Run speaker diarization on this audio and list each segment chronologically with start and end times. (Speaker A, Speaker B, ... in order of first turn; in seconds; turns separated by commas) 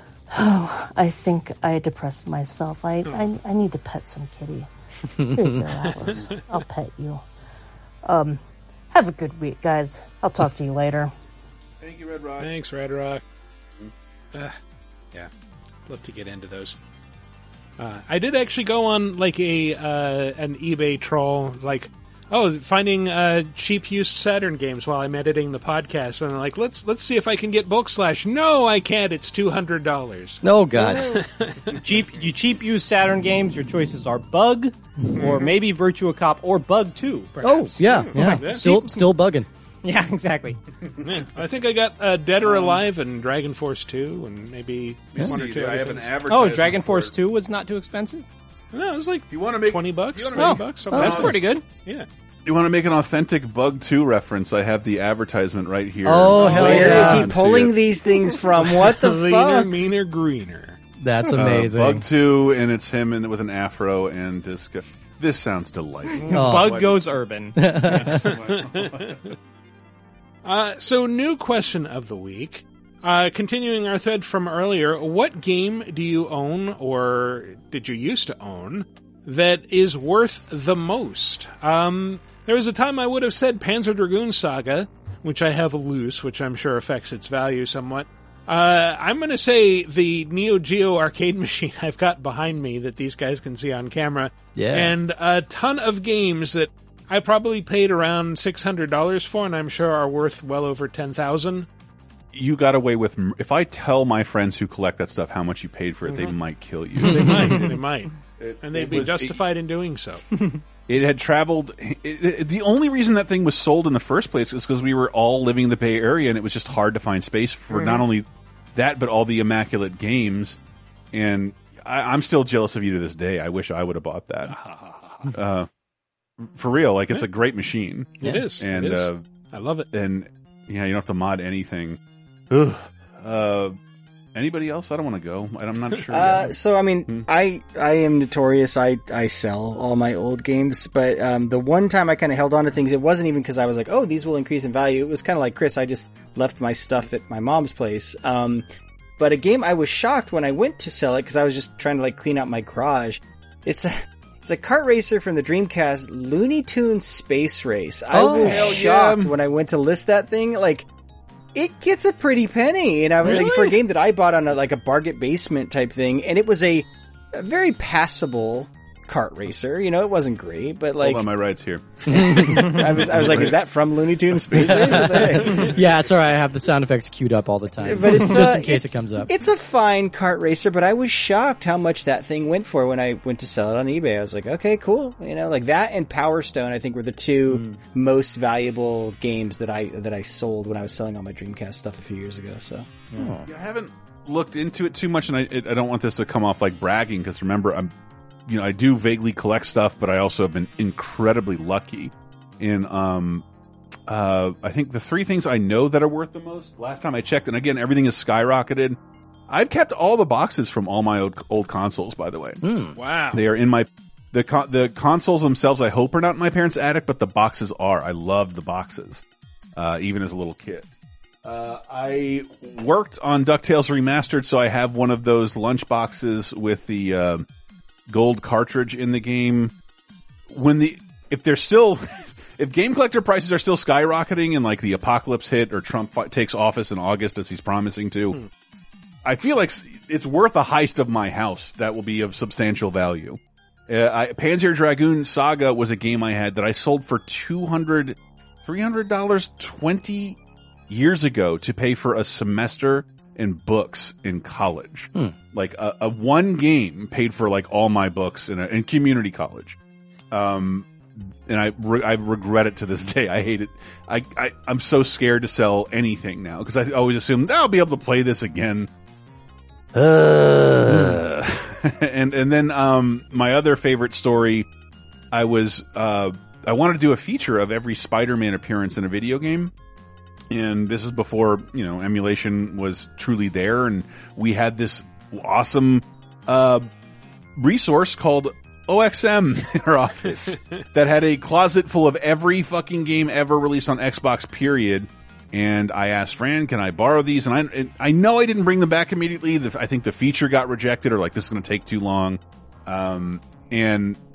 Speaker A: 0.3-4.7, Speaker B: 5.2-5.5, Speaker A: 5.2-7.2, Speaker A: 8.0-8.4, Speaker A: 8.9-11.1, Speaker C: 11.8-12.5, Speaker D: 12.4-13.2, Speaker D: 15.9-16.8, Speaker D: 17.8-31.8, Speaker B: 30.4-31.1, Speaker E: 31.8-39.1, Speaker D: 35.1-35.5, Speaker B: 37.4-39.5, Speaker D: 38.2-38.7, Speaker E: 39.8-40.6, Speaker D: 41.0-46.1, Speaker C: 42.4-42.8, Speaker C: 45.1-47.1, Speaker E: 46.3-48.2, Speaker D: 48.7-52.1, Speaker C: 49.3-51.4, Speaker E: 50.4-51.6, Speaker B: 50.9-51.3, Speaker C: 52.5-57.7, Speaker B: 56.0-57.3, Speaker D: 56.4-57.0, Speaker F: 56.5-59.7, Speaker D: 58.6-60.8, Speaker B: 61.0-62.0, Speaker C: 61.4-67.0, Speaker E: 66.3-67.6, Speaker B: 66.3-66.7, Speaker B: 67.6-68.3, Speaker D: 67.9-69.3, Speaker C: 68.1-69.2, Speaker D: 70.4-101.7, Speaker B: 94.5-95.0, Speaker C: 102.3-107.7, Speaker D: 106.1-106.3, Speaker D: 107.0-110.3, Speaker C: 108.4-109.4, Speaker C: 110.9-120.6, Speaker D: 117.7-118.0, Speaker C: 121.1-124.5, Speaker D: 124.5-125.3, Speaker C: 125.3-125.7, Speaker C: 126.4-129.2, Speaker D: 128.2-129.9, Speaker B: 128.2-128.4, Speaker C: 129.9-132.0, Speaker C: 132.5-133.8, Speaker C: 134.3-136.5, Speaker F: 136.1-148.7, Speaker F: 149.2-160.9, Speaker B: 158.1-158.8, Speaker C: 158.2-159.3, Speaker F: 161.5-171.2, Speaker D: 163.2-163.8, Speaker C: 171.0-173.6, Speaker B: 172.1-172.8, Speaker F: 172.1-175.7, Speaker C: 174.3-175.7, Speaker B: 174.8-179.3, Speaker F: 177.8-192.9, Speaker B: 193.2-193.4, Speaker C: 193.4-197.9, Speaker C: 198.5-203.4, Speaker C: 204.1-209.0, Speaker C: 209.5-212.6, Speaker B: 212.6-213.0, Speaker D: 212.9-213.4, Speaker C: 213.3-219.2, Speaker C: 219.8-220.8, Speaker C: 221.4-227.4, Speaker C: 228.1-229.7, Speaker C: 230.5-238.4, Speaker C: 239.2-250.4, Speaker C: 250.9-259.8, Speaker C: 260.3-268.9, Speaker C: 269.9-274.7, Speaker C: 275.3-279.7, Speaker C: 280.5-286.9, Speaker C: 287.6-304.2